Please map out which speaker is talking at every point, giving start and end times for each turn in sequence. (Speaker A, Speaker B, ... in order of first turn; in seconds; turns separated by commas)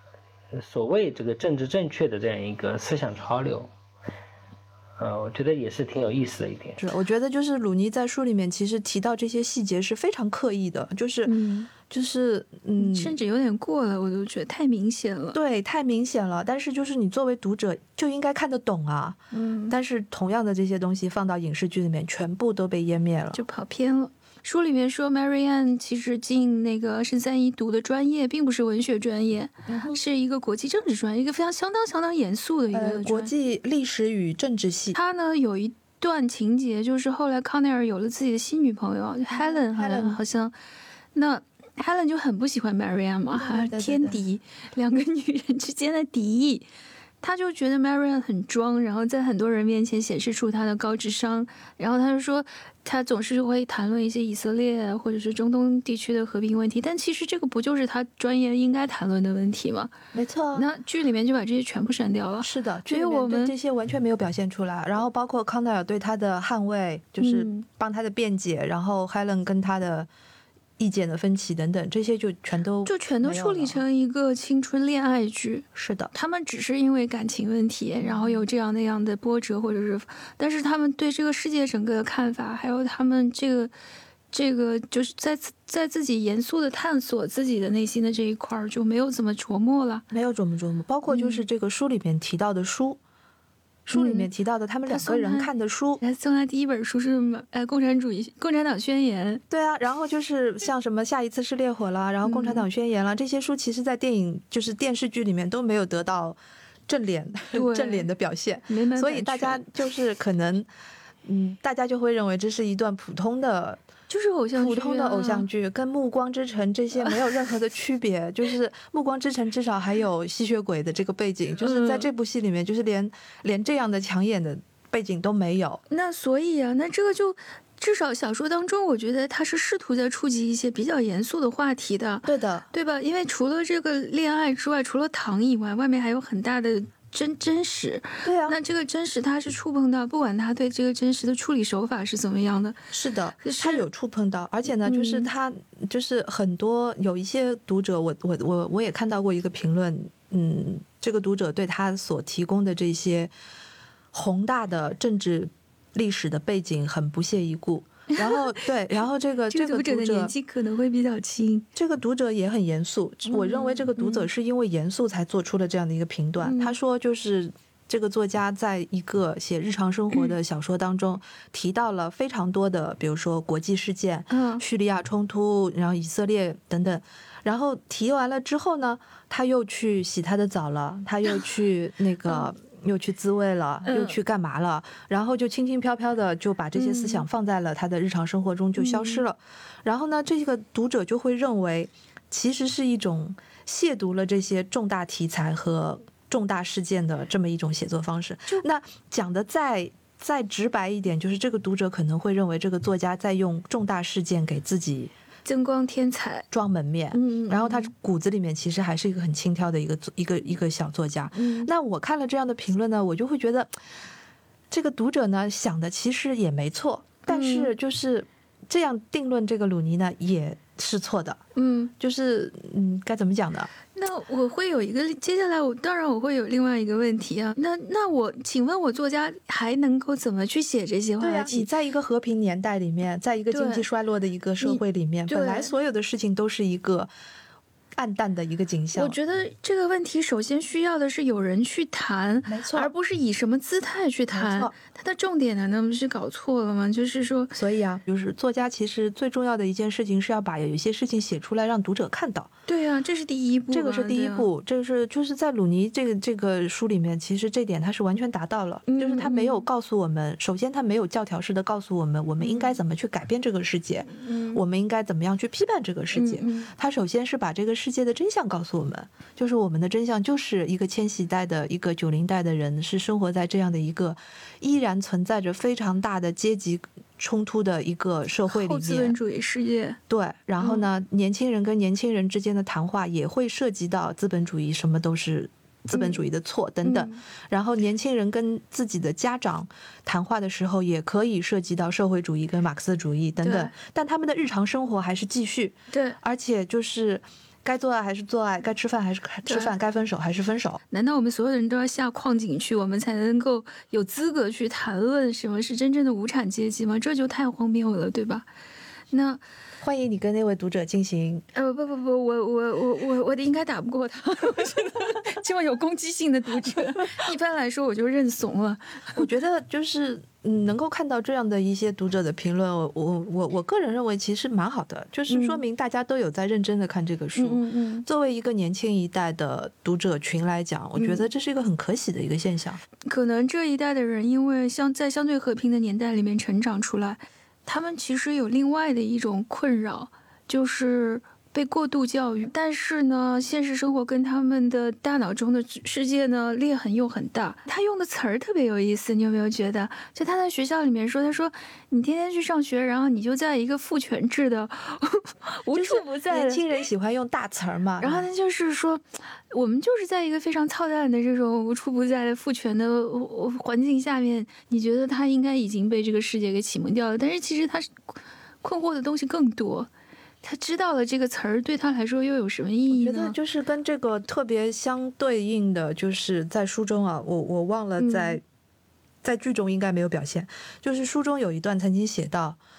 Speaker A: 0.6-3.7, Speaker A: 5.0-6.9, Speaker B: 6.8-13.2, Speaker C: 11.2-11.7, Speaker C: 12.8-15.4, Speaker B: 15.3-23.4, Speaker C: 19.3-19.7, Speaker C: 23.3-33.3, Speaker B: 29.7-30.0, Speaker B: 32.7-35.0, Speaker C: 34.9-40.5, Speaker B: 39.4-40.2, Speaker C: 41.1-46.7, Speaker B: 43.4-44.2, Speaker C: 47.2-59.9, Speaker B: 60.1-60.7, Speaker C: 60.5-63.5, Speaker B: 62.4-70.1, Speaker C: 67.2-67.7, Speaker B: 70.8-73.8, Speaker C: 72.9-83.7, Speaker B: 75.8-76.1, Speaker B: 78.0-78.4, Speaker C: 84.3-90.1, Speaker B: 90.1-93.0, Speaker C: 91.1-91.4, Speaker B: 93.9-96.0, Speaker C: 93.9-94.3, Speaker C: 94.9-95.5, Speaker C: 96.0-99.4, Speaker B: 99.5-110.7, Speaker C: 102.2-102.7, Speaker C: 107.5-108.1, Speaker C: 108.7-109.7, Speaker B: 111.2-113.8, Speaker C: 114.1-115.5, Speaker B: 114.6-125.8, Speaker C: 117.0-117.3, Speaker C: 121.6-122.1, Speaker C: 125.9-142.9, Speaker B: 132.2-132.7, Speaker B: 138.2-138.6, Speaker B: 142.9-153.3, Speaker C: 143.4-143.8, Speaker C: 144.9-145.3, Speaker B: 154.1-160.3, Speaker C: 158.1-159.0, Speaker C: 159.5-161.7, Speaker B: 161.8-205.1, Speaker C: 163.3-164.3, Speaker C: 166.4-166.8, Speaker C: 174.3-174.6, Speaker C: 183.9-184.2, Speaker C: 186.8-187.3, Speaker C: 188.8-189.2, Speaker C: 205.4-206.5, Speaker B: 206.5-213.7, Speaker C: 207.1-207.9, Speaker C: 211.3-211.7, Speaker B: 214.7-221.4, Speaker C: 217.3-217.7, Speaker C: 221.6-221.9, Speaker B: 222.0-223.7, Speaker C: 223.9-231.7, Speaker B: 231.2-237.1, Speaker C: 233.5-233.8, Speaker C: 234.6-235.7, Speaker B: 238.0-239.2, Speaker C: 238.9-247.6, Speaker B: 242.5-242.9, Speaker B: 244.3-244.7, Speaker B: 247.6-252.5, Speaker C: 252.7-254.5, Speaker B: 253.7-279.2, Speaker C: 258.9-259.6, Speaker C: 262.4-262.8, Speaker C: 264.1-264.6, Speaker C: 266.1-266.7, Speaker C: 278.5-280.0, Speaker B: 280.1-300.8, Speaker C: 280.6-280.9, Speaker C: 285.9-286.2, Speaker C: 286.8-287.2, Speaker C: 293.4-293.7, Speaker C: 295.9-296.2, Speaker C: 299.5-299.7, Speaker C: 300.9-308.5, Speaker C: 309.1-309.4, Speaker B: 309.8-311.4, Speaker C: 311.5-319.3, Speaker B: 319.2-332.8, Speaker C: 325.3-325.6, Speaker C: 327.4-328.1, Speaker C: 331.0-331.2, Speaker C: 333.0-356.6, Speaker B: 355.7-358.3, Speaker C: 358.0-369.9, Speaker C: 370.4-373.4, Speaker B: 372.9-378.4, Speaker C: 378.0-378.4, Speaker B: 379.2-382.6